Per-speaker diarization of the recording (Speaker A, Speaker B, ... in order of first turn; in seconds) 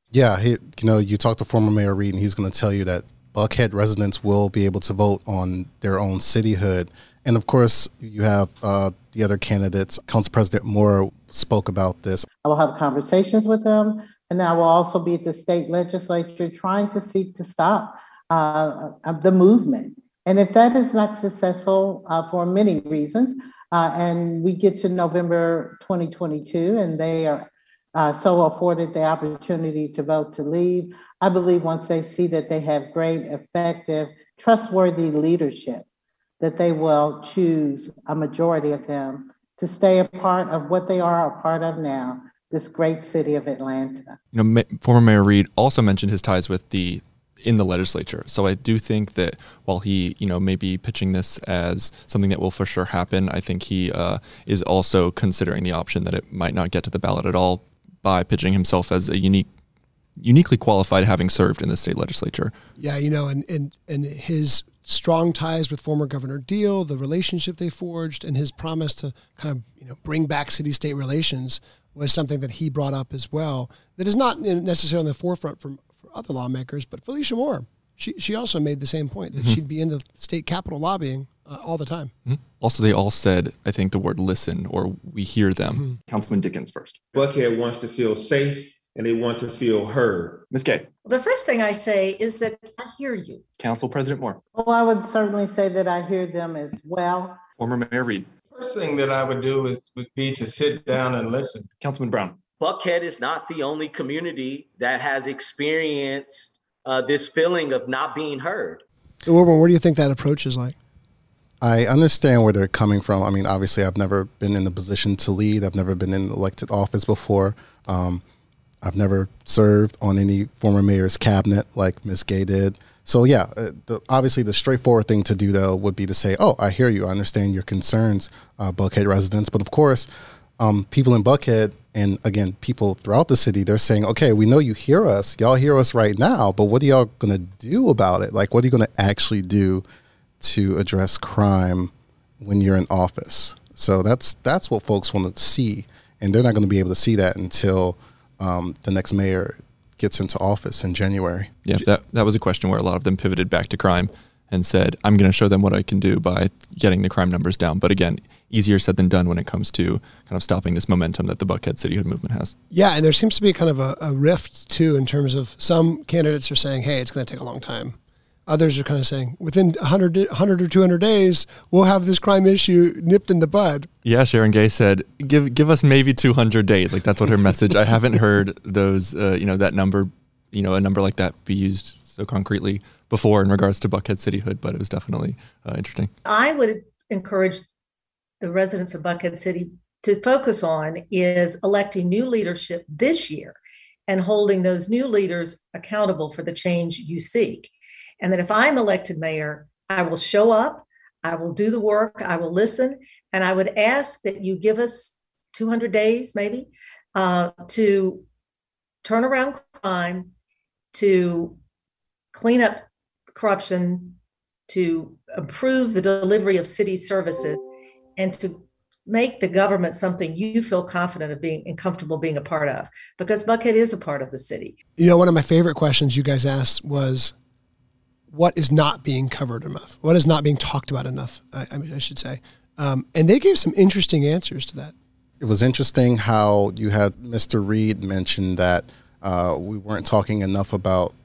Speaker A: 0.1-12.3, 111.6-118.2, 118.8-130.1, 130.6-139.8, 140.4-151.5, 235.4-241.1
Speaker B: 12.4-35.9, 36.4-44.1, 94.5-97.4
Speaker C: 44.3-59.5, 60.2-62.5, 82.3-87.0, 90.5-90.9, 93.6-94.4, 97.6-98.3, 101.8-102.4, 151.7-162.5, 174.1-186.1
Speaker D: 62.8-82.1, 109.3-110.8, 162.7-168.0, 168.5-173.9, 225.0-227.3, 228.3-234.9
Speaker E: 87.1-90.5
Speaker F: 91.0-93.4, 186.2-187.7, 188.4-208.2, 209.0-210.3, 210.9-211.6, 212.3-214.2, 214.7-217.6, 218.2-224.8
Speaker G: 98.5-101.7
Speaker H: 102.6-108.8